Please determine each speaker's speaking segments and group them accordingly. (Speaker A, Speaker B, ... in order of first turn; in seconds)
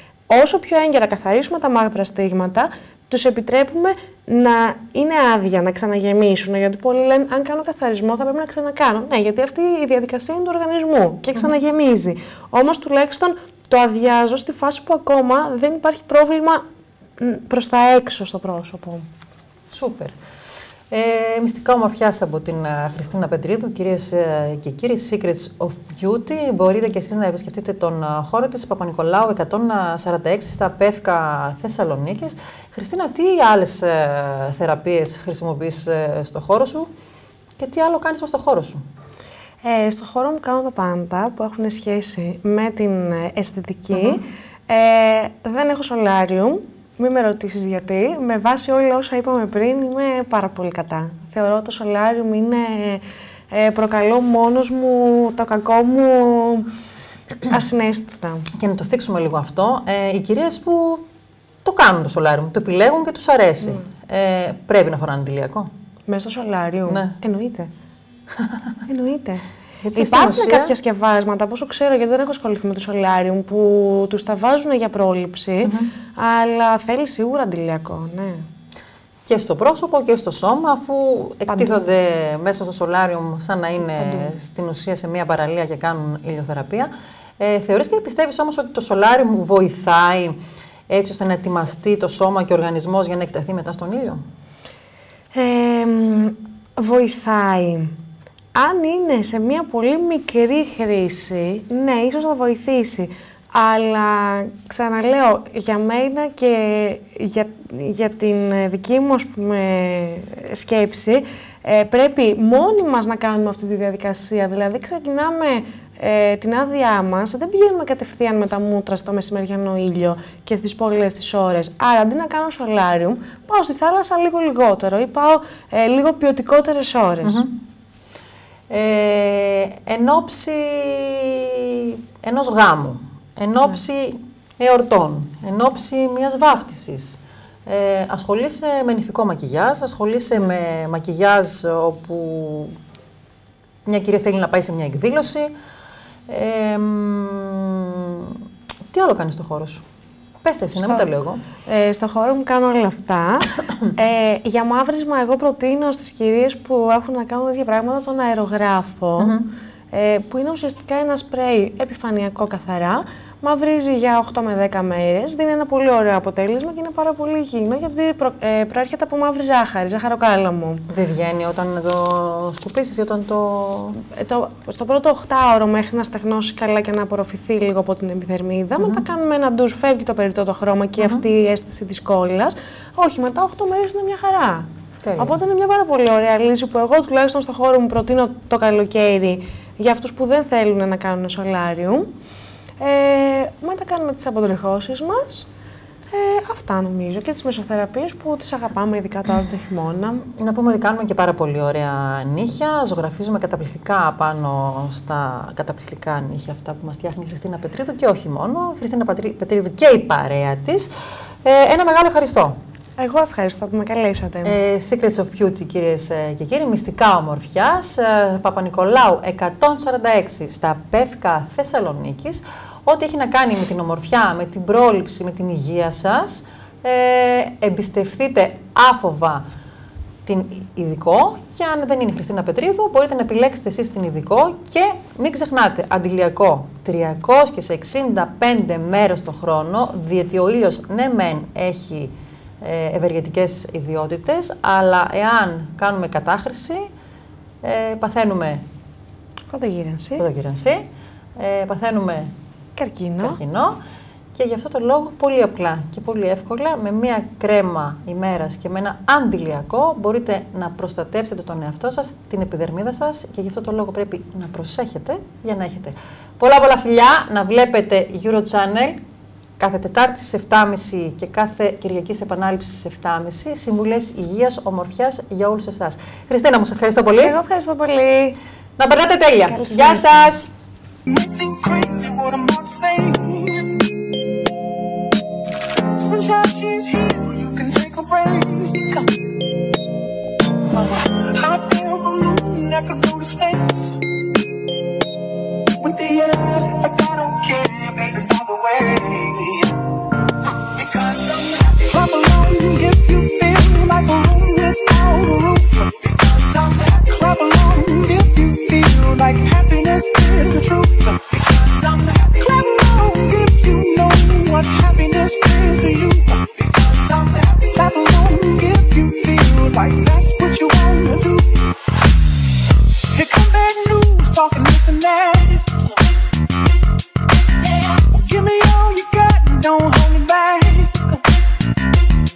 Speaker A: 0.3-16.6, 17.2-19.1, 39.6-56.7, 57.4-58.5, 63.6-63.9, 66.1-67.7, 68.9-78.5, 81.5-81.8, 84.0-84.3, 95.3-98.0, 98.5-127.4, 150.8-151.1, 151.7-159.4, 159.9-170.9, 174.0-192.1, 192.8-195.5, 196.1-200.3, 213.0-214.6, 249.5-250.3, 252.8-253.4, 277.2-278.4, 279.5-280.3
Speaker B: 19.7-20.1, 20.9-36.9, 37.6-38.8, 44.0-44.2, 58.5-61.1, 61.6-65.7, 66.9-67.2, 69.8-70.7, 75.6-75.9, 79.2-94.2, 127.2-127.6, 128.7-142.8, 143.8-145.5, 146.3-149.8, 150.4-151.4, 159.2-159.5, 170.9-174.0, 178.8-179.0, 181.0-181.2, 185.0-185.4, 200.3-210.9, 211.4-212.6, 214.4-229.5, 230.2-246.9, 247.6-248.7, 250.2-252.3, 253.2-253.8, 254.3-269.0, 269.6-277.4, 278.8-280.5
Speaker C: 281.1-283.9, 285.9-289.1, 290.7-294.0, 295.8-299.8, 300.7-321.7, 323.1-325.7, 327.9-331.2